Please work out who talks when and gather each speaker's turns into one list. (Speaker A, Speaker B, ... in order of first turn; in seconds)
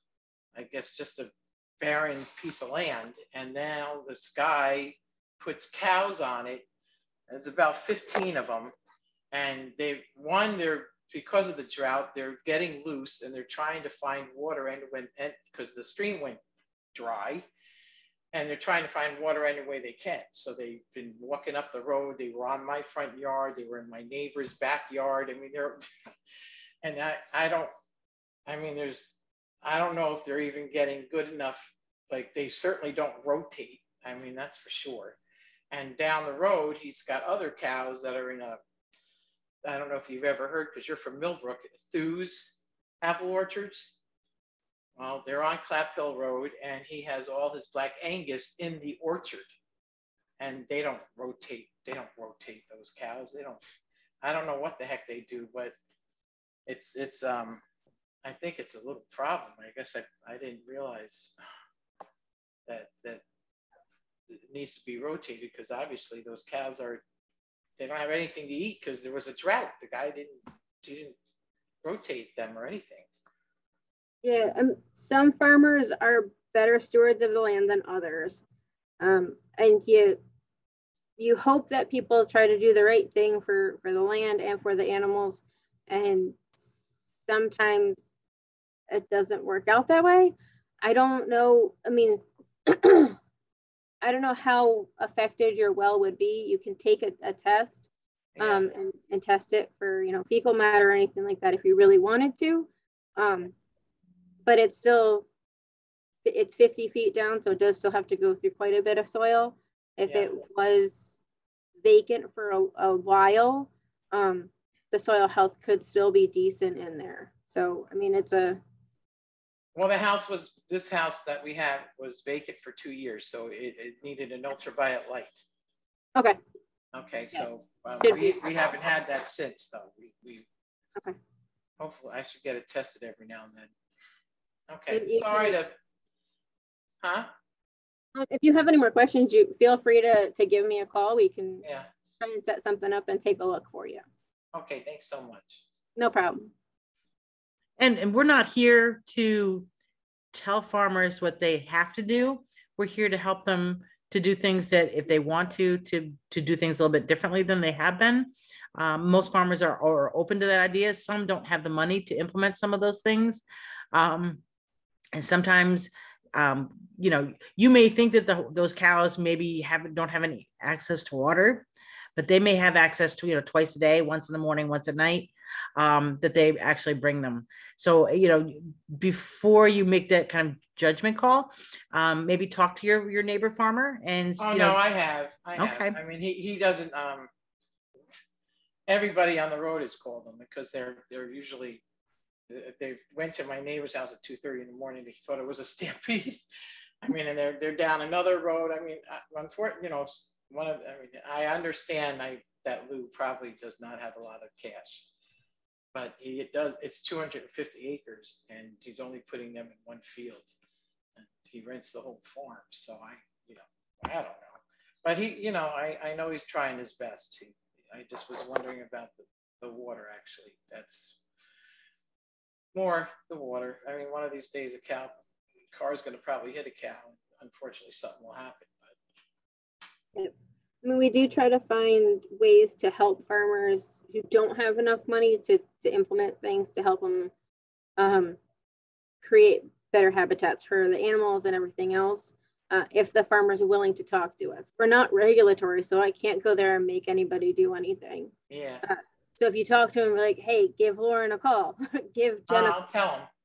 Speaker A: 0.5-6.7, 7.3-8.7, 9.3-16.4, 16.9-17.5, 18.3-25.9, 26.8-27.7, 28.4-35.2, 35.7-38.6, 39.6-43.9, 45.0-49.5, 50.4-53.6, 54.2-55.7, 56.7-57.6, 58.2-61.3, 62.7-63.2, 64.3-67.0, 67.8-71.2, 71.8-73.1, 98.4-98.7, 110.1-110.3, 119.7-125.4, 126.9-130.4, 131.8-133.7, 134.7-135.7, 137.0-137.3, 141.6-141.9, 144.5-145.6, 184.4-187.3, 188.9-191.8, 192.5-196.4, 197.0-205.1, 205.9-210.5, 211.2-221.2, 222.7-225.2, 225.7-228.9, 248.5-248.8, 252.5-253.3
Speaker B: 74.2-78.4, 79.0-80.2, 81.2-88.1, 88.9-93.2, 94.0-97.8, 98.4-103.5, 104.5-105.2, 106.2-111.2, 111.8-118.6, 128.0-128.4, 134.9-135.6, 138.2-141.6, 142.2-144.0, 146.0-146.5, 230.1-237.3, 238.0-238.4, 239.2-248.3, 248.8-252.8
Speaker C: 147.8-149.7, 150.3-164.4, 165.1-184.8, 185.6-185.9